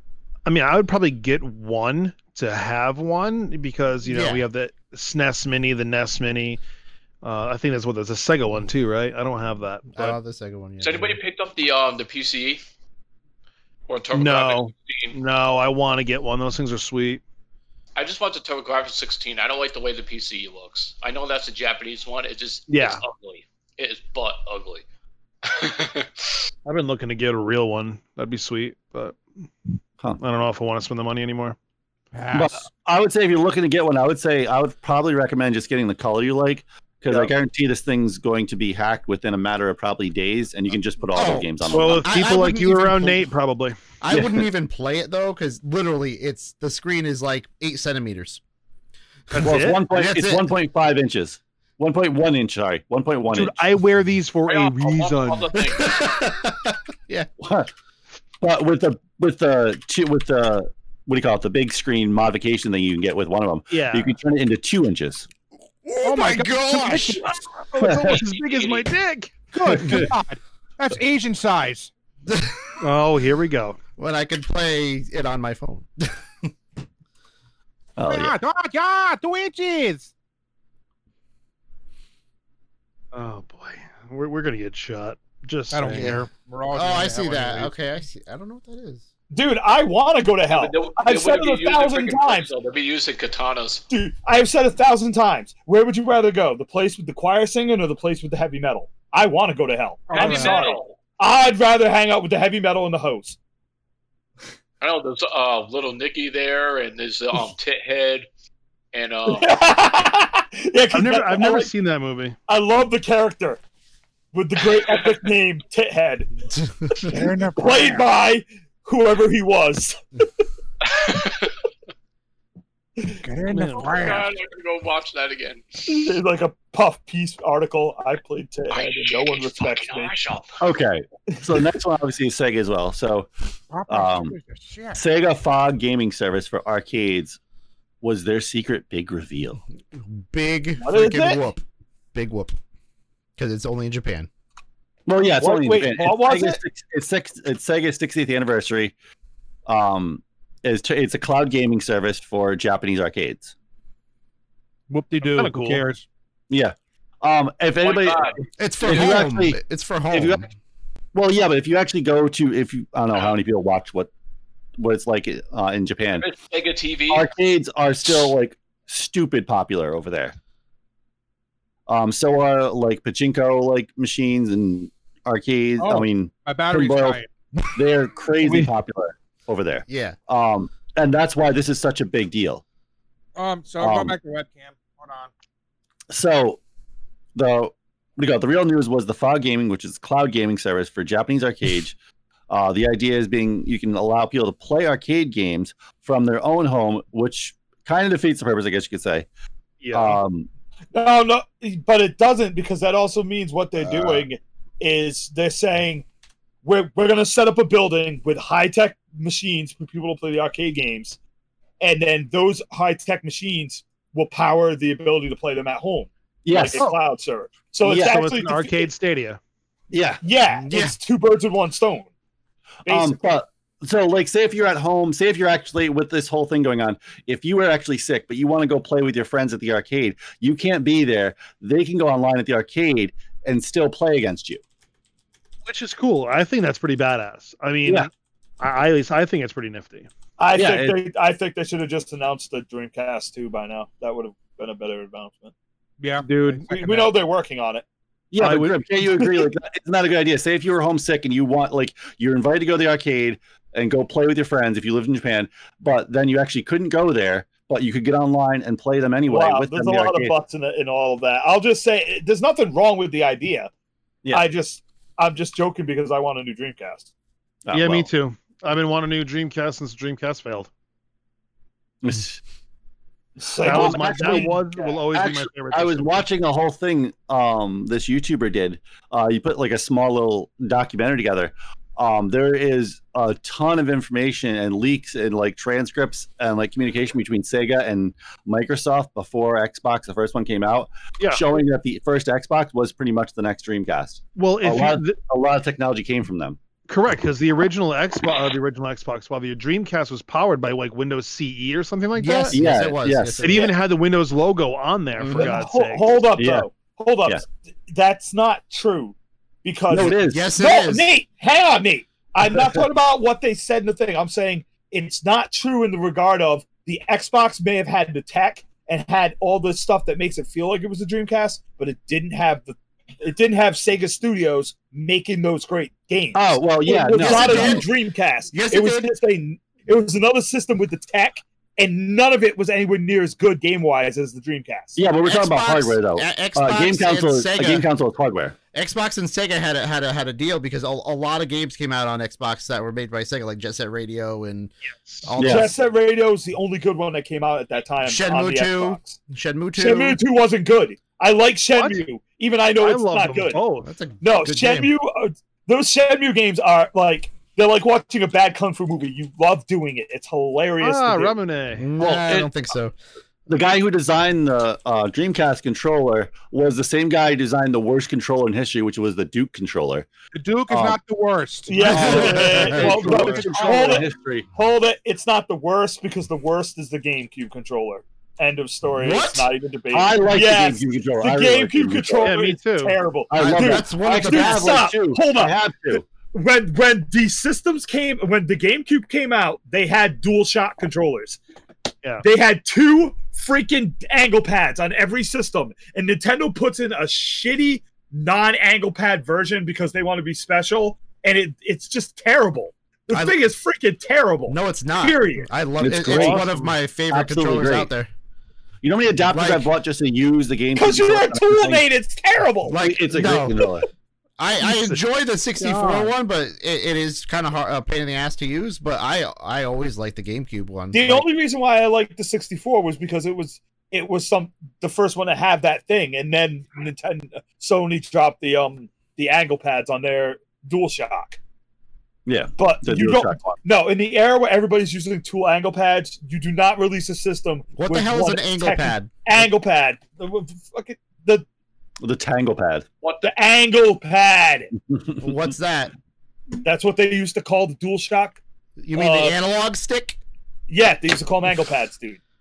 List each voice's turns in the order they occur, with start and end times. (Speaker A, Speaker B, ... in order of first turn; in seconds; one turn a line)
Speaker A: 0.5-6.6
Speaker B: 4.1-4.4
Speaker A: 7.2-10.2
Speaker B: 9.9-11.2
Speaker C: 10.8-12.6
Speaker C: 13.9-15.2
Speaker A: 14.1-17.2
Speaker C: 18.0-24.8
Speaker A: 22.7-23.0
Speaker C: 25.4-26.4
Speaker A: 26.7-29.2
Speaker A: 30.2-31.6
Speaker D: 32.1-32.7
Speaker E: 32.3-42.1
Speaker B: 41.1-43.3
Speaker A: 41.7-43.8
Speaker B: 44.0-48.4
Speaker E: 44.1-44.5
Speaker B: 49.3-50.5
Speaker A: 49.3-49.8
Speaker E: 49.4-53.6
Speaker A: 53.3-55.7
Speaker C: 54.5-56.2
Speaker B: 55.8-57.3
Speaker E: 57.4-57.7
Speaker E: 58.4-65.3
Speaker A: 63.7-64.2
Speaker B: 65.8-67.3
Speaker D: 66.0-67.3
Speaker A: 67.7-69.3
Speaker E: 67.8-68.2
Speaker C: 68.3-68.8
Speaker D: 69.5-71.9
Speaker E: 69.7-70.1
Speaker B: 72.3-72.6
Speaker A: 72.8-73.8
Speaker B: 74.0-76.5
Speaker E: 78.0-78.3
Speaker D: 78.0-80.1
Speaker A: 83.1-86.1
Speaker D: 85.7-87.8
Speaker B: 85.9-89.1
Speaker F: 89.3-92.5
Speaker C: 90.5-93.8
Speaker F: 93.9-103.4
Speaker D: 100.1-100.7
Speaker C: 100.1-101.0
Speaker C: 104.8-108.3
Speaker C: 108.9-109.5
Speaker F: 109.3-111.7
Speaker A: 110.9-112.4
Speaker F: 112.5-113.6
Speaker F: 114.3-116.3
Speaker C: 114.6-115.2
Speaker F: 117.1-120.0
Speaker D: 117.1-118.1
Speaker C: 120.8-121.5
Speaker D: 123.2-124.3
Speaker A: 123.5-124.2
Speaker C: 123.9-126.1
Speaker F: 125.9-130.2
Speaker C: 128.7-130.6
Speaker E: 130.6-133.3
Speaker D: 133.7-135.0
Speaker E: 133.9-134.3
Speaker E: 134.9-137.4
Speaker E: 138.0-139.6
Speaker B: 139.9-142.6
Speaker F: 140.8-141.4
Speaker B: 143.4-144.3
Speaker E: 145.1-148.9
Speaker F: 145.3-146.6
Speaker E: 149.7-153.5
Speaker D: 154.9-156.1
Speaker A: 155.4-155.8
Speaker E: 156.5-159.6
Speaker C: 157.8-159.2
Speaker B: 158.6-160.5
Speaker E: 160.1-160.4
Speaker E: 161.2-164.1
Speaker E: 164.8-166.3
Speaker C: 166.2-167.3
Speaker E: 167.1-170.3
Speaker E: 171.9-177.2
Speaker D: 175.8-177.3
Speaker E: 177.8-182.6
Speaker A: 178.4-178.7
Speaker B: 179.9-180.2
Speaker D: 183.4-185.3
Speaker E: 183.8-184.2
Speaker E: 186.1-186.6
Speaker E: 187.4-192.0
Speaker E: 192.5-199.3
Speaker A: 199.8-200.2
Speaker E: 199.9-200.5
Speaker F: 200.9-206.1
Speaker B: 203.9-204.2
Speaker F: 206.6-211.2
Speaker F: 211.8-218.9
Speaker E: 216.4-216.9
Speaker E: 217.8-218.2
Speaker A: 218.0-219.4
Speaker E: 219.9-220.2
Speaker F: 220.2-222.1
Speaker B: 220.5-221.0
Speaker F: 222.9-223.4
Speaker E: 222.9-234.6
Speaker A: 235.7-240.1
Speaker F: 240.4-245.5
Speaker E: 240.5-241.0
Speaker D: 246.0-247.1
Speaker A: 246.2-246.7
Speaker F: 246.7-247.8
Speaker E: 248.3-260.4
Speaker A: 248.4-248.8
Speaker F: 259.3-263.7
Speaker F: 264.3-267.1
Speaker E: 267.6-268.1
Speaker A: 267.7-270.7
Speaker E: 272.0-272.4
Speaker F: 273.4-274.9
Speaker E: 273.6-274.6
Speaker A: 273.6-276.2
Speaker E: 275.1-296.6
Speaker A: 294.4-295.2
Speaker A: 296.9-302.6
Speaker B: 302.1-303.7
Speaker E: 302.5-303.7
Speaker A: 303.4-306.1
Speaker B: 305.2-305.6
Speaker F: 305.4-335.0
Speaker E: 306.4-306.7
Speaker E: 309.9-310.5
Speaker B: 310.3-311.1
Speaker E: 326.3-327.9
Speaker B: 327.2-327.9
Speaker B: 328.5-329.1
Speaker E: 335.0-338.6
Speaker B: 335.2-337.9
Speaker B: 338.7-344.7
Speaker A: 344.9-345.3
Speaker B: 345.2-345.7
Speaker E: 345.4-345.7
Speaker F: 345.4-349.2
Speaker B: 348.0-350.2
Speaker F: 349.8-353.6
Speaker A: 352.8-353.9
Speaker B: 353.8-354.9
Speaker F: 354.2-361.4
Speaker A: 360.8-361.9
Speaker B: 361.8-362.9
Speaker E: 362.0-362.5
Speaker E: 363.5-370.1
Speaker D: 370.3-374.1
Speaker E: 370.7-371.0
Speaker F: 371.7-391.4
Speaker E: 371.8-374.5
Speaker B: 371.9-373.0
Speaker B: 379.0-379.5
Speaker E: 379.9-382.3
Speaker A: 382.2-383.0
Speaker E: 383.3-386.0
Speaker B: 383.4-384.9
Speaker F: 392.2-405.5
Speaker B: 403.1-403.4
Speaker B: 404.5-408.1
Speaker E: 405.8-406.5
Speaker A: 406.1-406.8
Speaker E: 407.1-407.9
Speaker E: 408.8-411.8
Speaker B: 409.2-409.8
Speaker F: 410.8-412.8
Speaker B: 412.7-413.7
Speaker E: 412.8-413.9
Speaker B: 414.4-421.2
Speaker A: 414.6-415.0
Speaker A: 415.6-416.1
Speaker F: 420.9-431.4
Speaker E: 432.3-433.6
Speaker F: 432.6-441.4
Speaker B: 437.8-439.4
Speaker E: 442.0-442.9
Speaker C: 443.0-443.3
Speaker F: 443.2-444.7
Speaker E: 444.9-445.4
Speaker B: 445.2-445.9
Speaker F: 446.6-448.4
Speaker B: 448.8-450.2
Speaker F: 448.9-449.4
Speaker F: 450.7-452.2